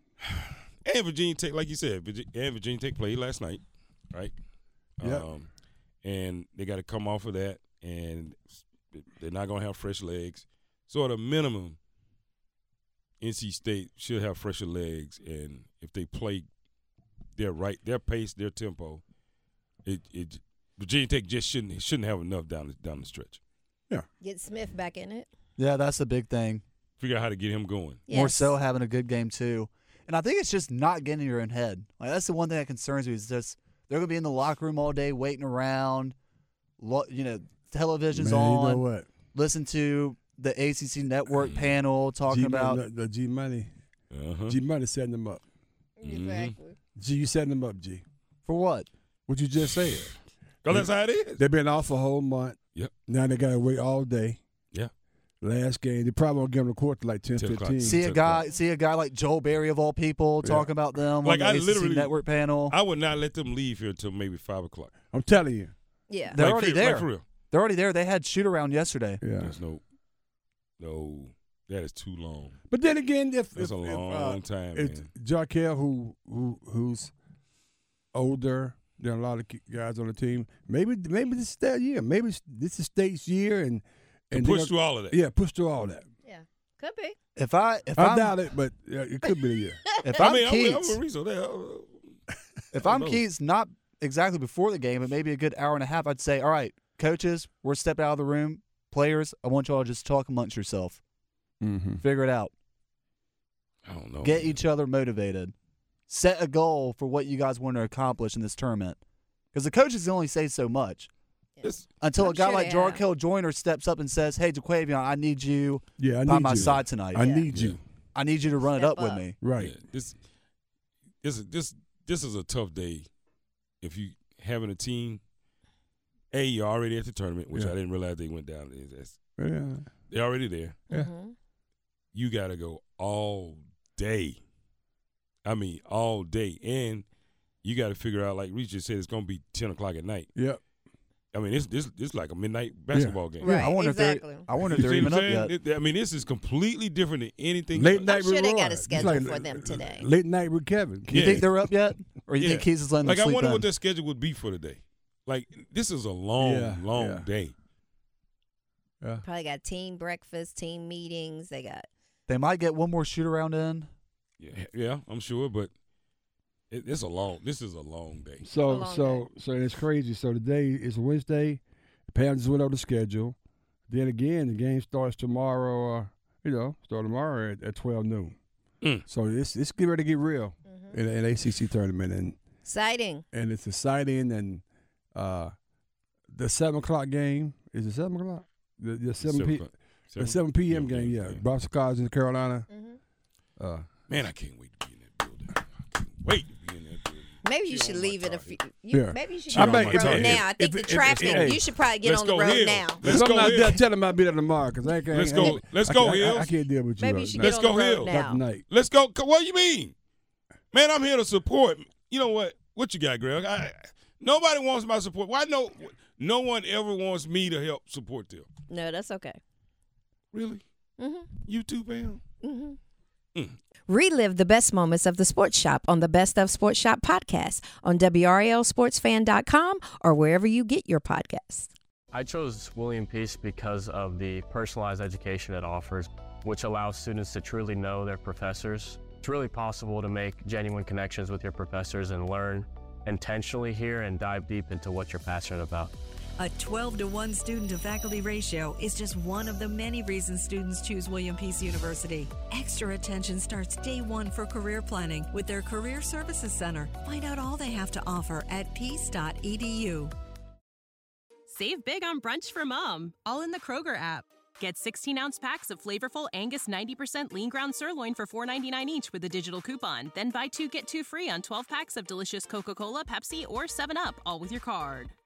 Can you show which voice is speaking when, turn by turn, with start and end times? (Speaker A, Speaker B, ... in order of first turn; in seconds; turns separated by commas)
Speaker A: 0.2-4.3, Speaker A: 5.0-5.5, Speaker B: 5.0-5.3, Speaker A: 6.0-11.8, Speaker A: 13.2-16.5, Speaker A: 17.4-19.0, Speaker A: 19.8-23.4, Speaker C: 24.2-25.3, Speaker D: 25.6-26.6, Speaker A: 27.0-28.0, Speaker C: 28.1-28.6, Speaker D: 28.1-36.1, Speaker D: 36.8-42.8, Speaker B: 38.1-39.1, Speaker B: 42.2-43.7, Speaker A: 44.1-44.6, Speaker B: 44.5-45.4, Speaker C: 46.0-46.8, Speaker A: 46.0-46.5, Speaker B: 47.0-48.0, Speaker D: 48.4-48.9, Speaker B: 49.3-50.2, Speaker A: 50.6-51.4, Speaker B: 50.7-54.4, Speaker B: 55.4-58.0, Speaker A: 57.4-58.4, Speaker D: 57.8-62.7, Speaker B: 60.4-60.7, Speaker A: 61.2-62.2, Speaker A: 62.7-64.9, Speaker B: 65.1-65.7, Speaker C: 66.1-66.4, Speaker A: 66.3-67.2, Speaker D: 66.3-69.2, Speaker B: 69.2-69.5, Speaker A: 69.4-69.8, Speaker A: 70.8-72.6, Speaker B: 72.7-77.1, Speaker A: 73.5-75.1, Speaker B: 78.1-86.0, Speaker A: 84.3-85.2, Speaker C: 86.2-87.1, Speaker D: 87.4-88.4, Speaker B: 88.0-89.8, Speaker C: 89.9-90.2, Speaker D: 90.0-91.0, Speaker A: 90.2-92.2, Speaker D: 92.7-101.0, Speaker A: 92.8-93.2, Speaker B: 101.6-102.0, Speaker D: 102.0-102.5, Speaker A: 103.8-104.6, Speaker D: 104.2-105.5, Speaker D: 106.1-109.0, Speaker D: 109.5-111.1, Speaker C: 111.6-113.0, Speaker D: 112.0-117.4, Speaker B: 116.0-117.8, Speaker C: 117.2-117.4, Speaker A: 117.5-117.8, Speaker D: 118.1-119.3, Speaker C: 118.6-119.3, Speaker B: 119.4-119.7, Speaker A: 119.6-120.2, Speaker A: 121.2-123.1, Speaker A: 123.8-125.2, Speaker A: 126.3-129.2, Speaker B: 129.4-129.9, Speaker A: 130.1-130.8, Speaker C: 130.9-131.3, Speaker A: 132.1-134.4, Speaker A: 135.4-137.1, Speaker A: 137.6-140.3, Speaker B: 140.3-140.6, Speaker A: 141.3-143.5, Speaker B: 142.9-143.2, Speaker C: 143.4-144.5, Speaker D: 143.4-145.5, Speaker B: 144.7-145.3, Speaker A: 144.7-148.1, Speaker B: 147.7-151.5, Speaker C: 148.1-150.1, Speaker A: 151.1-151.4, Speaker D: 151.1-153.7, Speaker A: 152.4-157.5, Speaker B: 156.4-157.3, Speaker C: 159.2-161.9, Speaker D: 162.3-163.9, Speaker A: 164.4-165.7, Speaker A: 166.7-168.5, Speaker B: 168.4-173.3, Speaker C: 168.6-169.2, Speaker B: 173.9-178.3, Speaker B: 179.1-182.4, Speaker C: 182.6-183.2, Speaker B: 183.3-184.6, Speaker B: 185.1-185.5, Speaker B: 186.3-192.7, Speaker A: 189.2-191.4, Speaker C: 192.7-193.0, Speaker B: 193.6-193.9, Speaker A: 194.1-198.6, Speaker C: 197.4-203.8, Speaker B: 198.9-201.6, Speaker A: 199.5-200.4, Speaker A: 201.1-203.8, Speaker B: 203.0-208.6, Speaker A: 205.1-206.5, Speaker C: 205.3-205.6, Speaker C: 207.0-208.4, Speaker A: 207.4-209.9, Speaker A: 210.7-218.5, Speaker C: 218.7-219.4, Speaker A: 220.3-220.6, Speaker C: 221.0-221.3, Speaker A: 221.4-222.2, Speaker C: 222.4-222.8, Speaker C: 223.9-231.7, Speaker E: 232.1-245.9, Speaker F: 246.4-260.1, Speaker G: 261.5-275.1